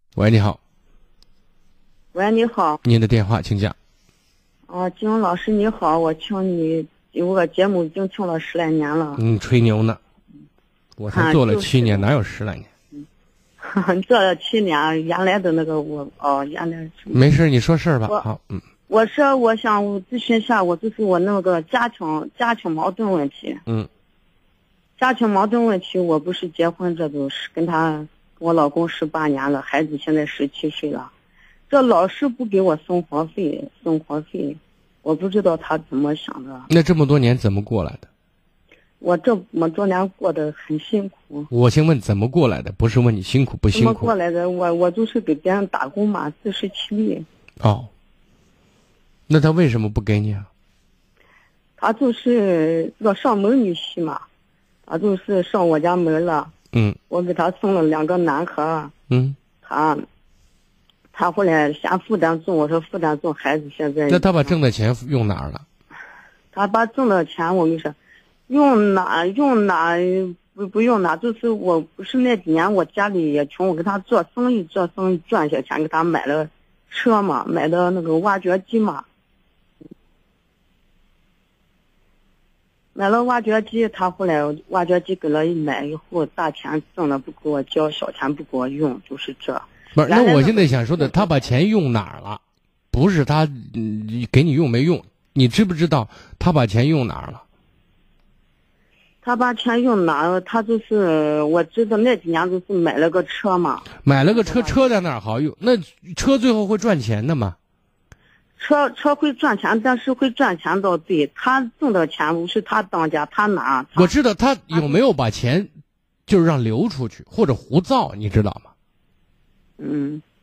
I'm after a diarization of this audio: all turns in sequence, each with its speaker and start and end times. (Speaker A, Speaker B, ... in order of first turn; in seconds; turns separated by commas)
Speaker A: 0.2-0.6, Speaker B: 2.1-2.8, Speaker A: 2.8-3.8, Speaker B: 4.7-9.2, Speaker A: 9.2-10.0, Speaker A: 11.0-12.7, Speaker B: 11.1-12.1, Speaker B: 13.6-17.2, Speaker A: 17.1-18.6, Speaker B: 18.9-23.6, Speaker B: 25.0-31.1, Speaker B: 31.7-36.7, Speaker A: 36.7-38.1, Speaker B: 39.0-41.5, Speaker A: 41.5-44.1, Speaker B: 43.7-47.2, Speaker A: 47.6-47.9, Speaker A: 49.3-50.5, Speaker B: 51.8-54.2, Speaker B: 54.9-56.5, Speaker B: 57.1-58.9, Speaker A: 59.1-59.4, Speaker B: 59.6-60.0, Speaker B: 61.1-64.6, Speaker A: 64.1-65.7, Speaker B: 66.5-68.0, Speaker B: 68.5-79.0, Speaker B: 83.0-91.5, Speaker A: 90.0-92.4, Speaker A: 92.9-97.4, Speaker B: 99.2-104.9, Speaker A: 104.0-107.6, Speaker B: 108.6-114.1, Speaker A: 114.0-115.7, Speaker B: 114.7-115.0, Speaker A: 116.3-118.7, Speaker B: 119.8-120.2